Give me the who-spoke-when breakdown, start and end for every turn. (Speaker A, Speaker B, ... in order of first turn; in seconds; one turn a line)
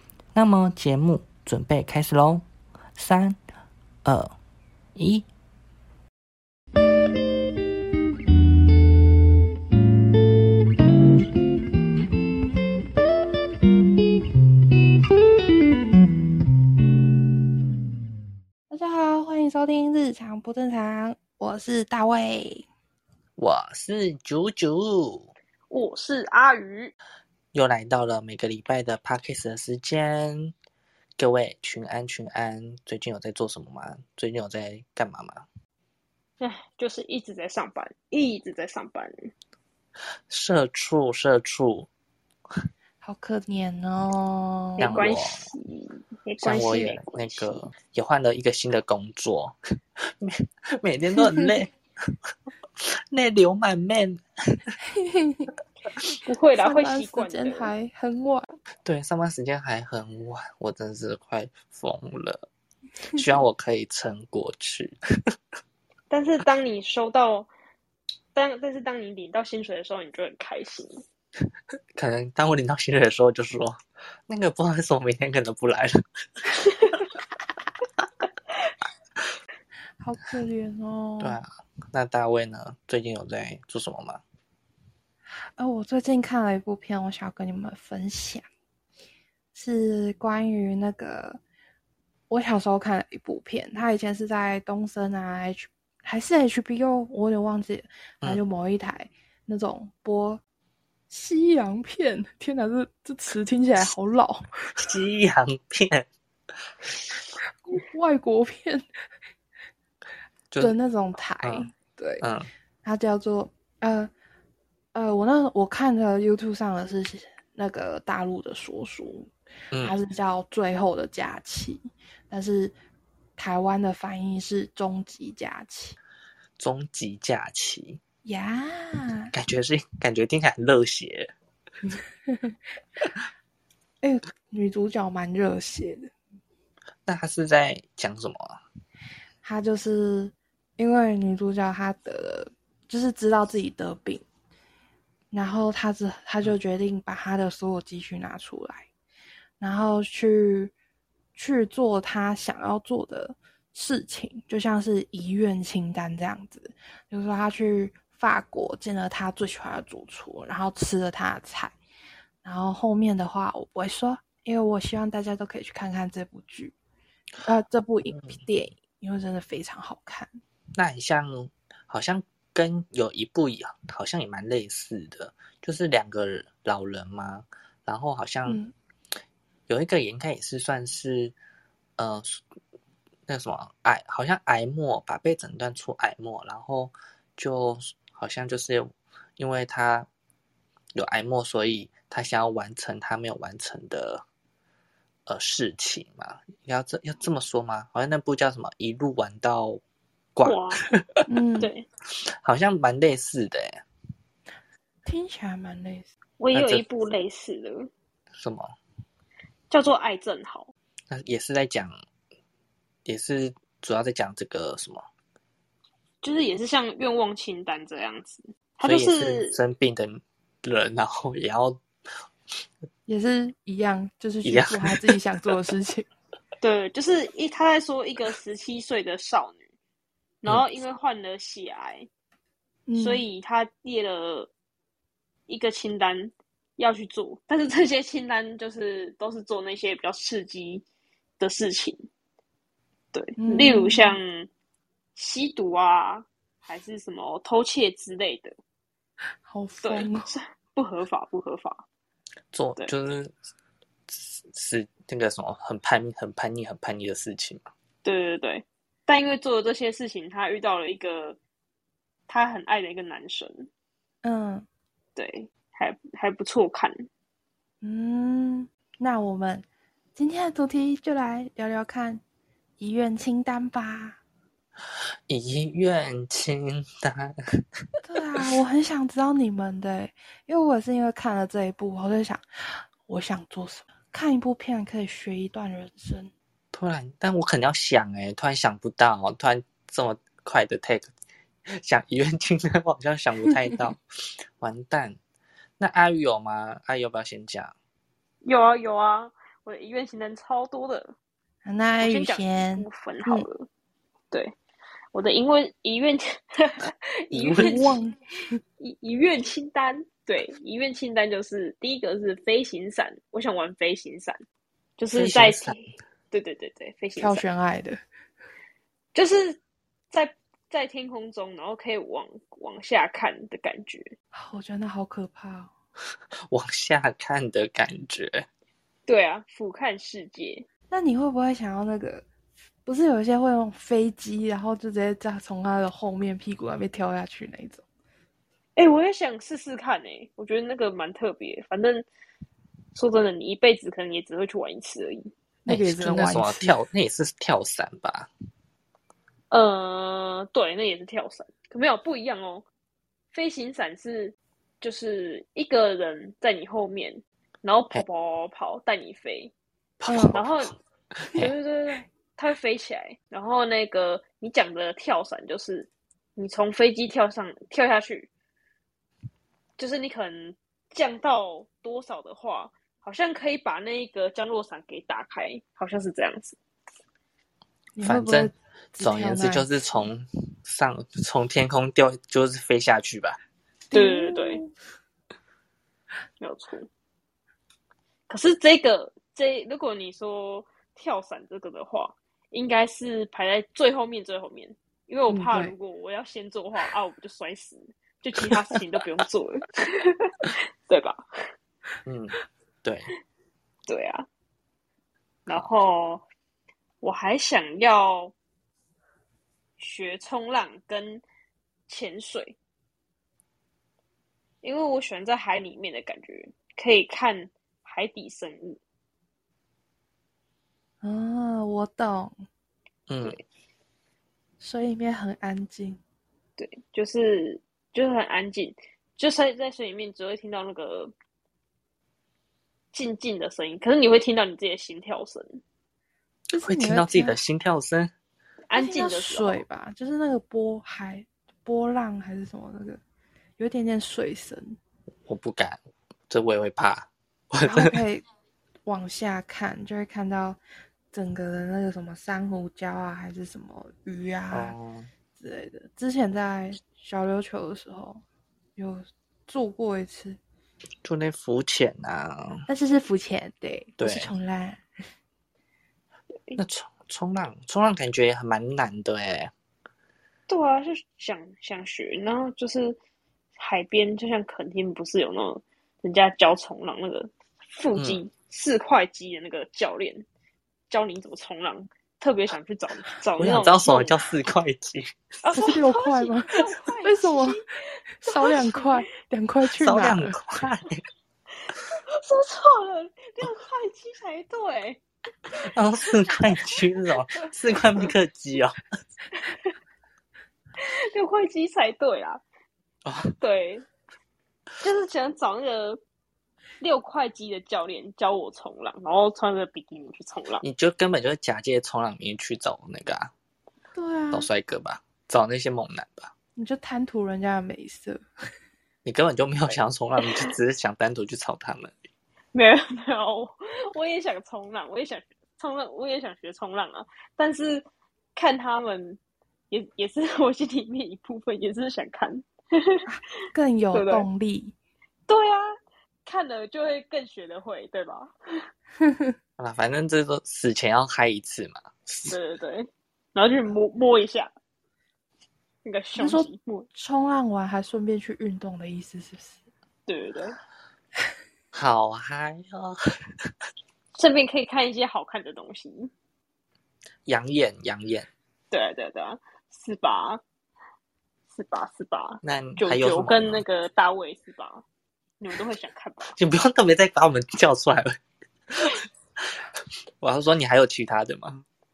Speaker A: 0.3-2.5
Speaker A: 3.0-3.4
Speaker A: 4.0-4.3
Speaker A: 5.0-5.3
Speaker B: 18.7-22.7
Speaker A: 23.4-25.3
Speaker C: 25.7-26.9
Speaker A: 27.5-30.5
Speaker A: 31.2-35.5
Speaker C: 36.4-39.3
Speaker A: 40.3-41.9
Speaker B: 43.0-45.0
Speaker C: 44.8-47.6
Speaker A: 44.8-45.5
Speaker A: 46.4-52.2
Speaker A: 52.8-54.8
Speaker B: 54.8-55.5
Speaker C: 56.2-57.7
Speaker B: 56.6-58.5
Speaker A: 58.9-62.5
Speaker A: 63.1-65.0
Speaker C: 66.1-67.5
Speaker C: 68.3-71.0
Speaker A: 72.0-76.5
Speaker B: 80.0-81.4
Speaker A: 81.2-84.2
Speaker B: 85.6-88.5
Speaker B: 89.5-91.4
Speaker B: 92.3-100.4
Speaker B: 101.1-104.5
Speaker A: 104.8-106.1
Speaker B: 107.7-108.9
Speaker A: 110.5-110.8
Speaker B: 110.6-112.2
Speaker A: 111.4-111.7
Speaker A: 112.2-112.5
Speaker B: 112.8-114.1
Speaker B: 114.9-119.3
Speaker B: 119.8-122.7
Speaker B: 123.4-126.0
Speaker A: 126.6-128.0
Speaker B: 128.2-129.3
Speaker A: 129.3-131.3
Speaker B: 131.9-132.6
Speaker B: 134.0-136.1
Speaker A: 137.1-138.6
Speaker B: 139.4-144.2
Speaker B: 145.3-148.9
Speaker B: 149.6-150.7
Speaker B: 151.3-161.8
Speaker B: 162.4-166.7
Speaker B: 167.4-170.4
Speaker A: 168.1-168.4
Speaker A: 170.8-178.6
Speaker B: 178.5-178.7
Speaker A: 179.7-181.3
Speaker A: 182.0-182.4
Speaker A: 183.3-190.1
Speaker A: 190.9-194.2
Speaker A: 195.3-199.8
Speaker A: 200.4-201.2
Speaker C: 200.4-200.8
Speaker B: 201.3-201.7
Speaker C: 201.6-201.8
Speaker A: 202.4-203.8
Speaker B: 205.1-206.1
Speaker C: 206.4-207.9
Speaker A: 206.5-206.8
Speaker A: 208.4-208.7
Speaker C: 209.7-210.7
Speaker A: 211.1-211.9
Speaker A: 213.1-215.0
Speaker C: 216.2-219.6
Speaker A: 218.8-221.8
Speaker B: 223.1-226.1
Speaker A: 224.4-225.2
Speaker C: 226.6-229.6
Speaker C: 230.4-232.1
Speaker B: 232.9-233.2
Speaker C: 232.9-234.5
Speaker C: 235.5-240.8
Speaker C: 241.4-242.1
Speaker C: 243.1-244.5
Speaker B: 243.4-244.2
Speaker C: 245.2-248.6
Speaker B: 249.4-250.3
Speaker C: 249.8-251.8
Speaker A: 252.5-253.3
Speaker A: 254.1-257.7
Speaker C: 258.0-261.4
Speaker C: 262.3-263.7
Speaker B: 264.2-264.7
Speaker C: 265.2-267.1
Speaker B: 267.8-272.2
Speaker B: 272.8-274.2
Speaker A: 275.3-277.4
Speaker B: 278.0-286.3
Speaker A: 286.7-291.1
Speaker A: 291.7-294.0
Speaker A: 294.6-295.2
Speaker A: 295.8-297.7
Speaker C: 298.4-301.1
Speaker B: 301.6-303.5
Speaker C: 302.0-303.7
Speaker C: 305.1-308.0
Speaker A: 307.3-307.8
Speaker B: 307.6-308.6
Speaker C: 308.8-314.4
Speaker C: 315.0-317.4
Speaker A: 315.1-315.8
Speaker B: 317.2-318.0
Speaker C: 319.1-319.6
Speaker C: 320.1-324.1
Speaker B: 324.3-325.7
Speaker A: 326.5-328.5
Speaker C: 329.1-330.7
Speaker B: 330.9-332.3
Speaker B: 332.9-337.8
Speaker C: 338.8-342.1
Speaker C: 342.9-345.3
Speaker A: 345.7-348.3
Speaker B: 345.7-346.8
Speaker C: 349.5-352.6
Speaker C: 353.3-359.5
Speaker A: 360.0-360.6
Speaker B: 360.1-360.4
Speaker C: 360.3-360.8
Speaker A: 361.2-361.5
Speaker C: 361.4-368.3
Speaker C: 369.8-376.6
Speaker B: 378.0-379.7
Speaker A: 378.0-383.4
Speaker B: 383.9-384.7
Speaker C: 383.9-384.6
Speaker C: 386.4-386.9
Speaker C: 388.3-401.5
Speaker B: 395.3-395.8
Speaker A: 402.1-403.1
Speaker C: 403.9-404.3
Speaker C: 405.5-406.2
Speaker C: 407.0-408.3
Speaker C: 409.8-411.2
Speaker C: 411.9-412.6
Speaker C: 414.6-418.8
Speaker B: 421.0-422.4
Speaker A: 423.1-423.4
Speaker B: 424.6-426.0
Speaker C: 426.6-431.1
Speaker C: 432.9-435.6
Speaker B: 436.5-437.4
Speaker A: 436.6-438.1
Speaker C: 438.7-439.6
Speaker B: 438.8-443.0
Speaker B: 443.6-444.8
Speaker A: 445.3-448.0
Speaker B: 447.7-448.2
Speaker B: 448.9-450.6
Speaker B: 451.1-454.8
Speaker A: 454.5-455.1
Speaker B: 455.4-458.2
Speaker B: 458.8-460.4
Speaker A: 461.0-462.7
Speaker B: 462.7-464.8
Speaker A: 464.0-464.3
Speaker A: 466.6-469.5
Speaker C: 470.5-473.0
Speaker C: 473.6-480.2
Speaker A: 477.9-478.2
Speaker C: 480.9-484.2
Speaker A: 483.4-485.2
Speaker C: 485.4-489.0
Speaker B: 485.5-487.6
Speaker B: 488.2-490.4
Speaker A: 489.8-491.0
Speaker C: 491.9-495.0
Speaker A: 495.5-498.8
Speaker C: 496.3-496.8
Speaker C: 500.8-502.4
Speaker A: 503.1-503.4
Speaker C: 503.4-503.9
Speaker C: 504.8-506.0
Speaker C: 506.8-510.6
Speaker A: 510.6-513.3
Speaker B: 514.0-514.5
Speaker A: 514.3-516.3
Speaker B: 516.6-518.2
Speaker A: 519.0-521.9
Speaker C: 522.5-527.8
Speaker C: 528.4-529.2
Speaker C: 529.7-533.1
Speaker B: 533.1-534.8
Speaker C: 533.9-534.3
Speaker C: 535.3-535.7
Speaker C: 536.2-538.7
Speaker B: 539.0-539.3
Speaker A: 539.6-542.4
Speaker C: 542.3-544.5
Speaker C: 545.9-546.9
Speaker B: 546.2-549.6
Speaker C: 550.1-550.6
Speaker A: 551.7-553.0
Speaker C: 554.1-556.1
Speaker A: 557.3-558.3
Speaker C: 558.7-560.4
Speaker C: 561.5-564.8
Speaker A: 562.4-563.6
Speaker C: 565.4-566.4
Speaker A: 566.4-568.2
Speaker A: 570.2-571.6